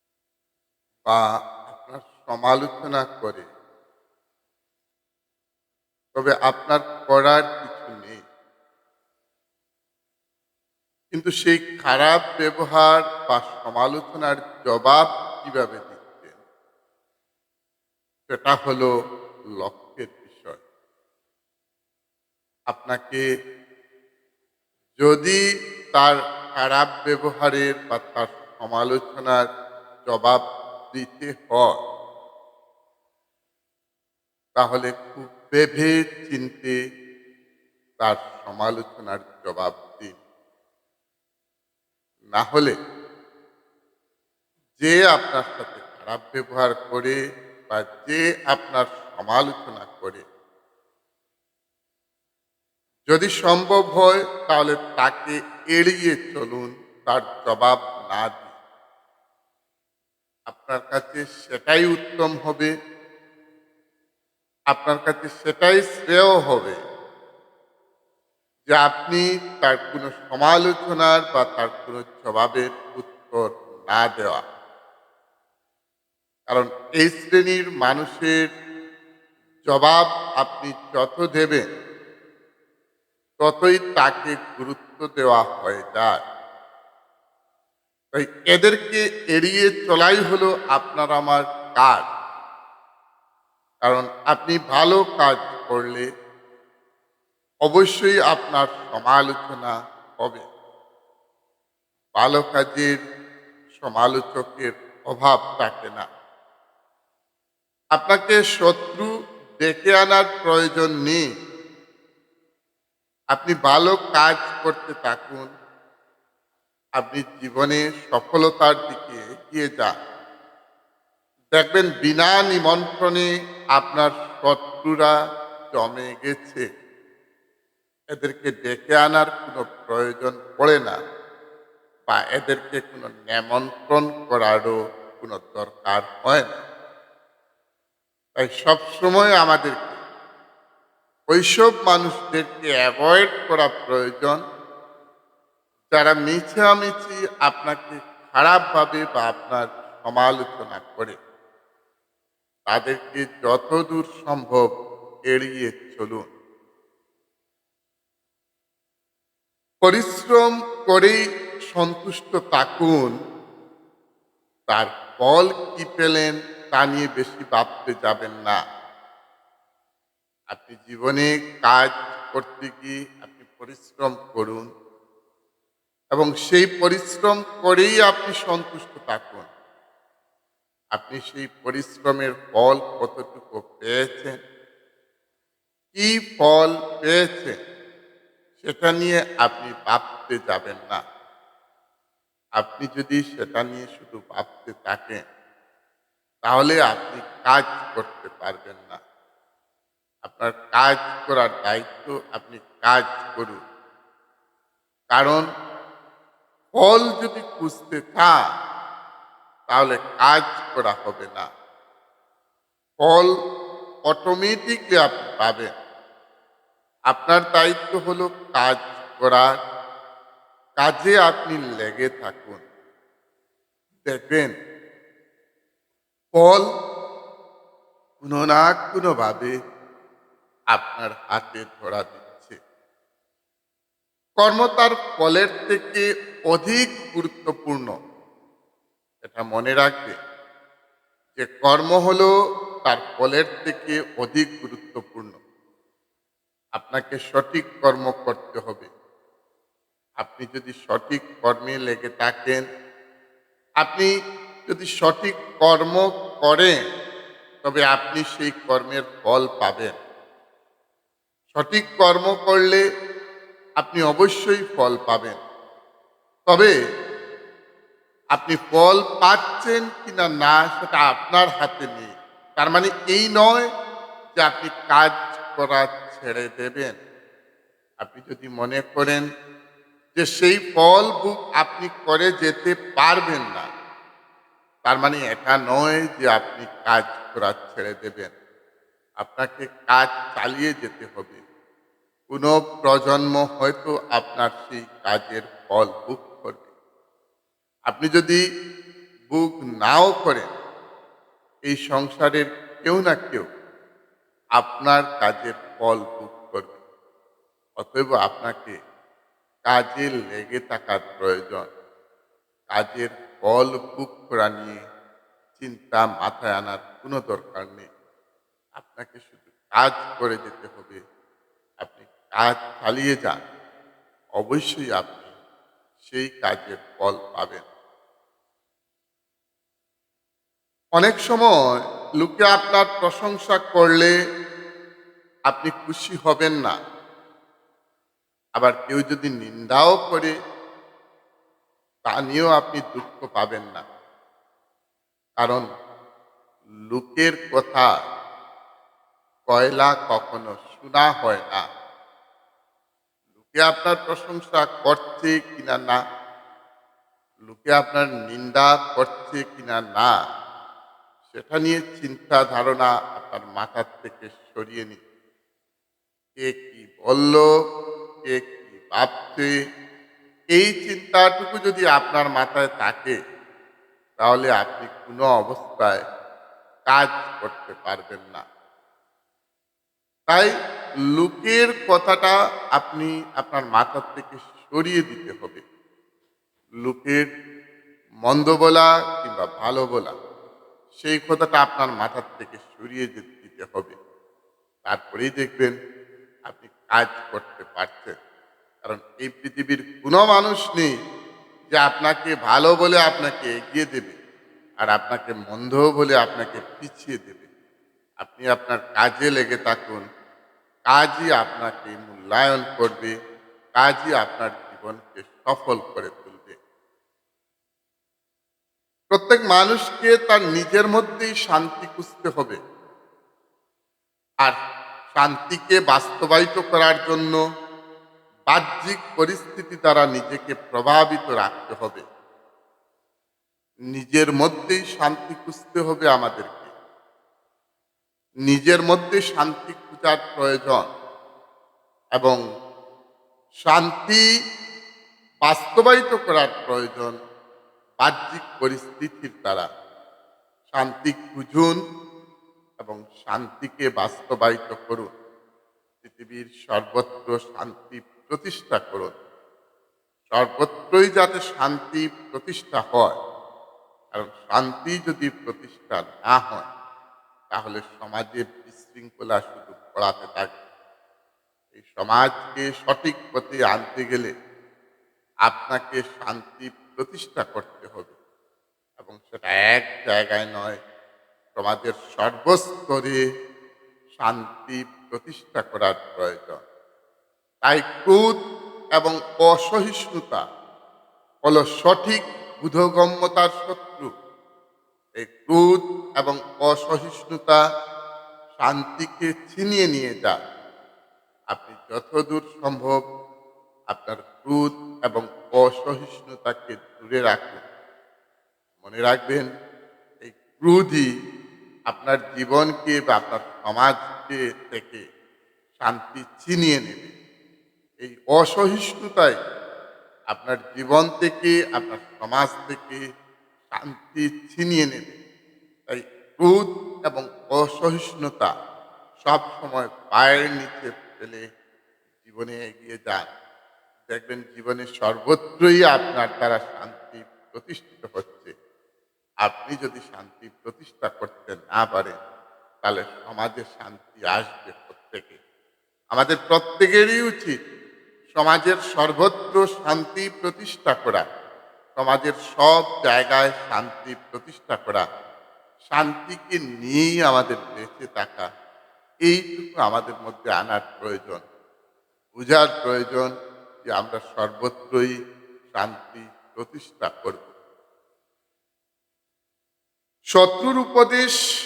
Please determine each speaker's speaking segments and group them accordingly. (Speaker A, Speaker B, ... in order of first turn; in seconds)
Speaker A: 1.1-3.5, 6.2-8.2, 11.1-16.4, 18.3-18.9, 19.6-20.6, 22.7-23.2, 25.0-25.4, 25.9-29.4, 30.1-30.4, 30.9-31.8, 34.6-36.8, 38.0-40.2, 42.3-42.8, 44.8-47.2, 47.7-50.2, 53.1-58.5, 60.5-62.7, 64.7-66.8, 68.7-74.4, 76.5-78.4, 79.7-81.7, 83.4-86.2, 88.1-92.0, 93.8-96.1, 97.7-100.4, 102.2-103.0, 103.8-106.0, 108.0-109.1, 109.6-111.2, 113.3-115.5, 117.0-119.9, 121.5-125.2, 125.8-126.7, 128.2-131.0, 132.1-136.6, 138.4-140.0, 141.3-144.4, 145.9-151.2, 152.7-154.6, 155.3-156.3, 159.8-161.2, 161.7-163.1, 164.7-168.6, 170.5-174.7, 176.1-179.5, 180.9-184.4, 185.9-187.6, 188.6-191.0, 192.6-195.2, 196.5-199.0, 200.2-203.6, 205.1-205.5, 206.8-208.4, 209.7-211.5, 213.1-213.3, 214.1-215.7, 217.1-219.6, 220.8-222.6, 224.1-224.5, 226.3-226.7, 228.2-229.6, 230.7-232.6, 234.4-237.9, 239.2-240.2, 241.4-242.3, 242.9-245.4, 246.8-248.9, 250.2-252.6, 253.8-254.1, 254.7-256.8, 257.6-260.0, 261.5-262.8, 263.8-265.4, 266.5-266.8, 268.4-273.7, 274.4-277.0, 278.0-279.2, 280.2-283.7, 284.9-288.3, 289.2-291.4, 292.3-296.7, 297.9-298.4, 299.3-300.5, 301.7-303.4, 304.6-306.8, 307.8-308.8, 309.7-311.7, 312.7-314.8, 315.6-317.9, 318.8-321.0, 321.8-323.4, 324.4-325.3, 326.0-327.6, 331.0-334.1, 335.5-336.7, 338.6-340.3, 342.1-343.8, 345.4-345.7, 346.9-347.9, 349.5-351.6, 353.4-356.0, 357.4-360.1, 361.3-365.0, 366.4-367.5, 368.3-369.5, 370.6-373.2, 374.2-376.0, 376.9-378.4, 381.1-385.6, 386.8-387.3, 388.2-390.1, 391.0-394.0, 394.9-395.8, 396.5-398.2, 398.9-400.9, 401.8-404.2, 404.8-407.5, 408.2-410.1, 410.9-413.1, 413.8-416.6, 419.1-422.6, 425.1-427.4, 428.5-432.0, 433.9-436.7, 438.5-440.9, 443.6-444.2, 445.5-447.1, 448.0-449.7, 450.7-451.8, 452.8-455.1, 456.0-459.1, 460.3-463.2, 464.1-466.7, 467.5-470.5, 471.7-474.3, 475.5-478.2, 479.0-480.8, 481.6-483.2, 484.2-486.6, 487.6-488.4, 489.0-490.4, 491.5-494.1, 495.2-497.6, 498.6-500.4, 501.5-503.0, 503.9-507.6, 508.8-509.5, 510.2-511.1, 511.9-515.0, 515.8-517.1, 518.0-519.4, 520.3-523.0, 523.7-525.2, 525.9-528.5, 529.2-531.4, 532.2-533.3, 534.1-538.5, 539.4-542.2, 542.8-545.4, 546.1-547.5, 548.4-551.2, 552.0-555.0, 555.9-558.5, 559.3-561.4, 562.4-563.3, 563.9-565.1, 565.7-567.5, 570.3-571.3